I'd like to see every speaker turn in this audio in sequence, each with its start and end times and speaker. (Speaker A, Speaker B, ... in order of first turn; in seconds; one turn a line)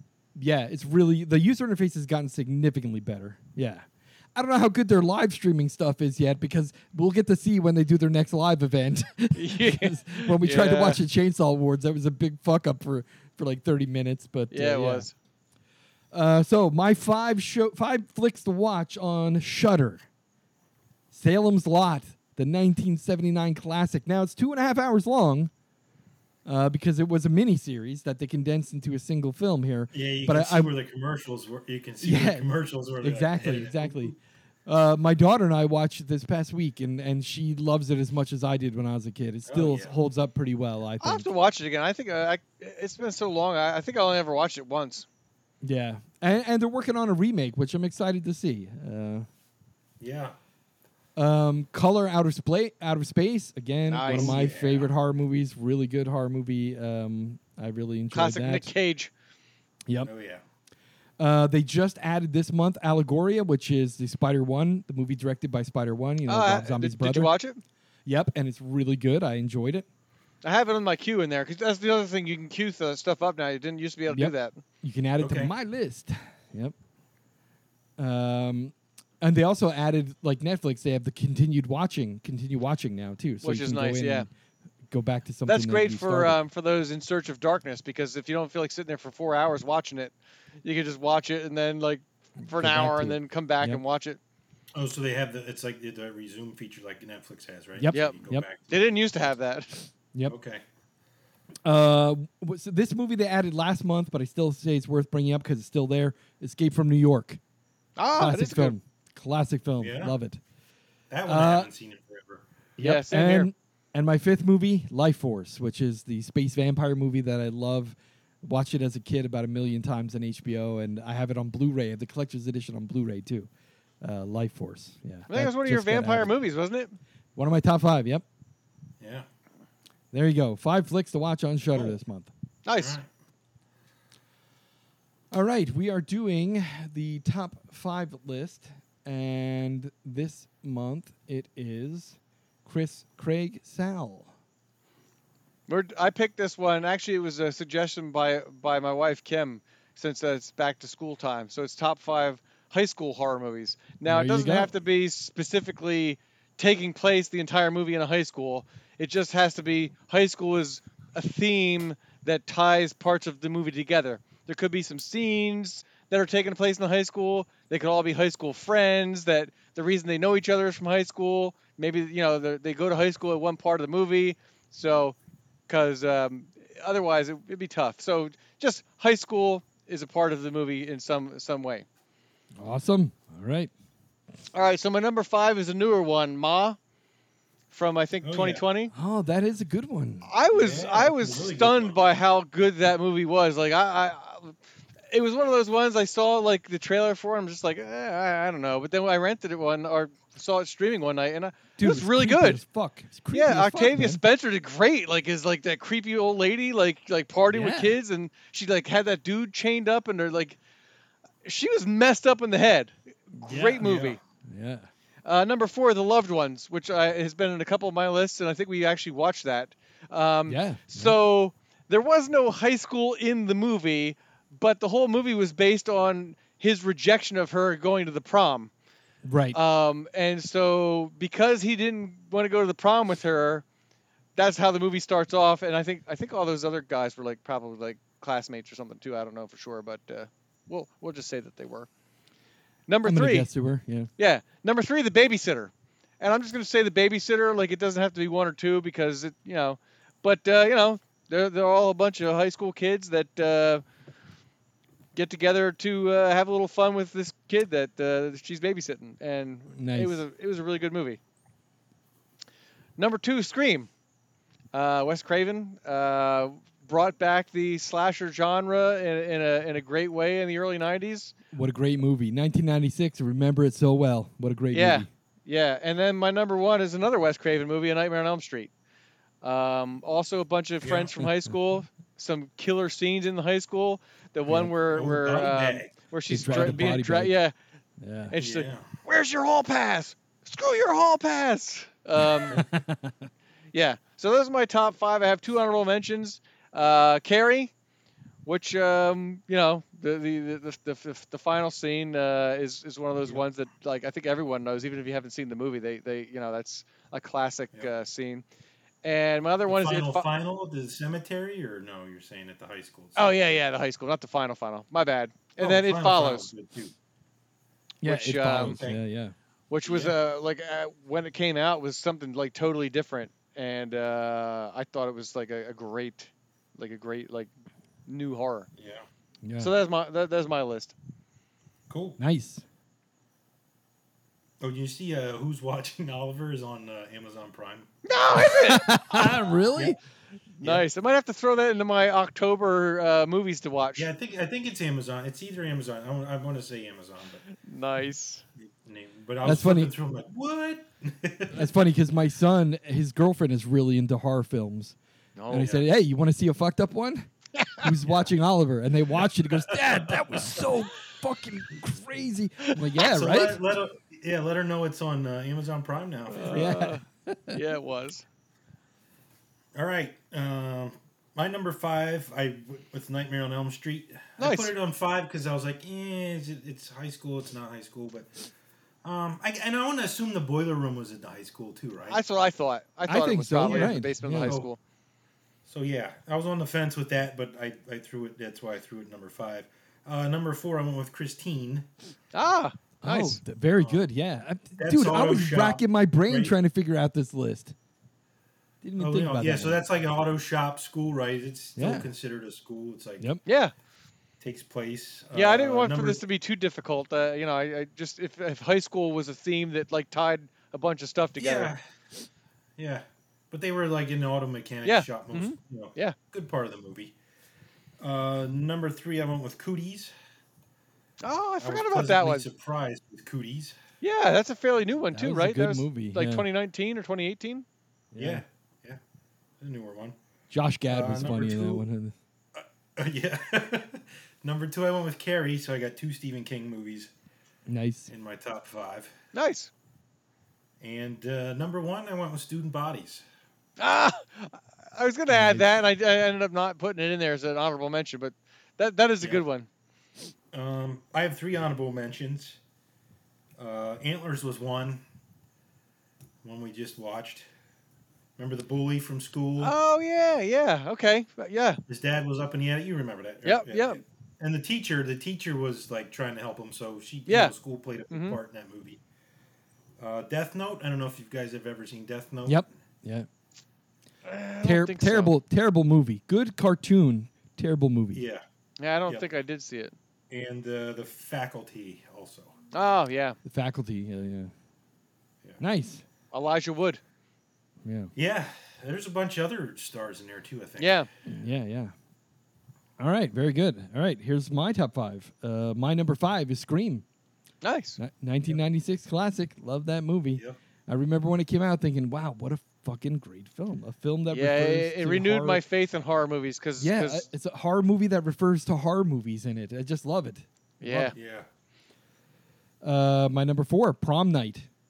Speaker A: 0.4-15.1
Speaker B: 9.4-11.0
Speaker B: 14.5-15.1
Speaker A: 16.1-20.1
Speaker A: 21.1-25.5
Speaker A: 26.5-30.7
Speaker C: 29.9-34.1
Speaker A: 32.0-32.5
Speaker A: 33.0-34.1
Speaker A: 34.7-41.3
Speaker C: 39.5-39.9
Speaker B: 41.0-45.1
Speaker A: 45.6-49.3
Speaker C: 50.0-50.3
Speaker A: 51.2-58.7
Speaker B: 53.9-54.4
Speaker C: 54.1-54.9
Speaker B: 58.1-59.1
Speaker C: 60.0-60.4
Speaker A: 61.2-67.3
Speaker B: 66.3-67.6
Speaker A: 68.1-69.9
Speaker B: 70.4-74.6
Speaker A: 74.1-76.7
Speaker C: 75.2-75.5
Speaker A: 78.0-84.3
Speaker B: 83.4-84.3
Speaker A: 84.9-86.4
Speaker B: 85.5-94.2
Speaker A: 92.4-93.8
Speaker C: 94.8-98.8
Speaker A: 97.8-98.5
Speaker B: 97.9-99.9
Speaker C: 100.3-100.6
Speaker A: 101.7-107.4
Speaker B: 108.0-108.8
Speaker A: 108.2-110.4
Speaker C: 109.8-110.2
Speaker C: 111.1-112.4
Speaker A: 111.3-111.7
Speaker A: 112.8-123.5
Speaker B: 112.8-113.5
Speaker A: 124.0-126.3
Speaker B: 125.3-127.0
Speaker A: 127.4-128.2
Speaker C: 129.0-129.3
Speaker A: 130.1-132.3
Speaker C: 131.7-132.0
Speaker B: 132.7-133.0
Speaker C: 132.8-133.1
Speaker A: 135.3-144.3
Speaker B: 145.7-175.2
Speaker A: 154.1-154.7
Speaker B: 175.7-181.8
Speaker A: 182.6-183.7
Speaker B: 184.5-186.8
Speaker B: 187.7-188.9
Speaker C: 188.2-188.6
Speaker A: 188.9-190.3
Speaker B: 190.3-194.6
Speaker C: 190.5-192.1
Speaker B: 195.1-202.6
Speaker A: 201.8-204.2
Speaker B: 203.3-210.6
Speaker A: 207.5-208.0
Speaker B: 211.4-214.2
Speaker A: 213.4-213.8
Speaker C: 213.8-214.2
Speaker A: 214.5-214.9
Speaker B: 215.2-228.7
Speaker A: 220.5-221.2
Speaker A: 229.2-229.6
Speaker B: 229.5-233.6
Speaker B: 234.4-241.9
Speaker B: 242.9-243.5
Speaker A: 243.0-244.1
Speaker B: 244.2-253.8
Speaker B: 255.2-261.2
Speaker A: 259.7-260.2
Speaker B: 263.0-263.9
Speaker B: 264.7-271.3
Speaker A: 271.5-275.1
Speaker B: 274.7-278.7
Speaker B: 279.4-287.5
Speaker C: 280.8-281.2
Speaker C: 284.6-285.9
Speaker A: 286.3-287.4
Speaker A: 288.0-288.4
Speaker B: 288.3-292.6
Speaker C: 288.4-288.9
Speaker A: 292.5-293.3
Speaker B: 293.7-297.7
Speaker B: 298.4-308.4
Speaker B: 309.0-310.3
Speaker C: 309.7-313.4
Speaker B: 313.2-316.5
Speaker C: 315.6-316.9
Speaker A: 318.0-319.3
Speaker B: 318.0-318.8
Speaker C: 318.6-319.0
Speaker B: 319.7-327.5
Speaker C: 319.9-320.2
Speaker B: 328.1-328.7
Speaker C: 328.8-329.0
Speaker A: 329.4-329.7
Speaker B: 329.6-330.9
Speaker C: 331.9-332.2
Speaker A: 332.2-332.6
Speaker C: 334.6-337.9
Speaker B: 338.1-339.3
Speaker A: 338.6-340.0
Speaker B: 340.6-344.1
Speaker C: 340.6-340.9
Speaker C: 344.0-347.4
Speaker B: 347.6-348.4
Speaker C: 348.6-351.7
Speaker A: 349.4-349.9
Speaker A: 351.5-355.0
Speaker B: 355.4-355.8
Speaker A: 355.5-363.6
Speaker C: 355.6-355.8
Speaker C: 359.5-360.6
Speaker C: 363.0-366.8
Speaker B: 366.3-368.2
Speaker A: 366.5-367.6
Speaker C: 369.8-378.3
Speaker B: 374.4-374.7
Speaker C: 379.0-382.2
Speaker B: 382.1-384.8
Speaker A: 383.1-384.6
Speaker C: 383.6-384.7
Speaker C: 385.7-391.9
Speaker B: 392.3-393.4
Speaker A: 393.0-397.8
Speaker C: 393.8-394.0
Speaker C: 394.8-396.6
Speaker A: 398.8-399.8
Speaker C: 399.0-403.3
Speaker A: 401.8-402.1
Speaker B: 403.5-403.7
Speaker C: 404.4-406.2
Speaker B: 405.3-411.7
Speaker C: 411.4-411.8
Speaker C: 412.8-417.1
Speaker B: 414.9-416.2
Speaker C: 418.0-420.1
Speaker B: 421.2-422.5
Speaker C: 421.6-423.8
Speaker B: 424.0-427.6
Speaker A: 425.1-426.5
Speaker A: 428.1-428.4
Speaker C: 428.2-429.0
Speaker C: 429.6-430.2
Speaker A: 430.5-432.1
Speaker C: 430.9-431.8
Speaker C: 432.6-437.1
Speaker A: 437.7-438.1
Speaker C: 438.1-439.1
Speaker B: 439.3-439.7
Speaker C: 440.8-443.2
Speaker B: 443.8-449.7
Speaker A: 445.3-445.7
Speaker C: 450.5-452.6
Speaker C: 453.6-455.0
Speaker C: 456.4-457.5
Speaker C: 458.4-459.8
Speaker B: 459.6-461.8
Speaker C: 461.9-469.0
Speaker B: 463.4-464.0
Speaker B: 467.3-467.5
Speaker B: 468.1-468.4
Speaker C: 470.0-472.7
Speaker A: 472.4-473.3
Speaker B: 474.2-475.3
Speaker A: 474.6-478.2
Speaker C: 478.1-478.4
Speaker B: 478.8-479.9
Speaker C: 480.3-482.6
Speaker B: 482.7-483.4
Speaker A: 483.4-484.5
Speaker A: 485.6-486.0
Speaker B: 486.3-487.0
Speaker A: 487.9-488.1
Speaker C: 488.1-491.1
Speaker B: 490.8-491.1
Speaker A: 491.3-491.9
Speaker A: 493.0-497.1
Speaker B: 497.6-498.0
Speaker A: 498.0-505.6
Speaker B: 504.3-507.2
Speaker A: 506.8-511.1
Speaker B: 510.8-511.1
Speaker C: 511.1-511.5
Speaker A: 512.8-514.7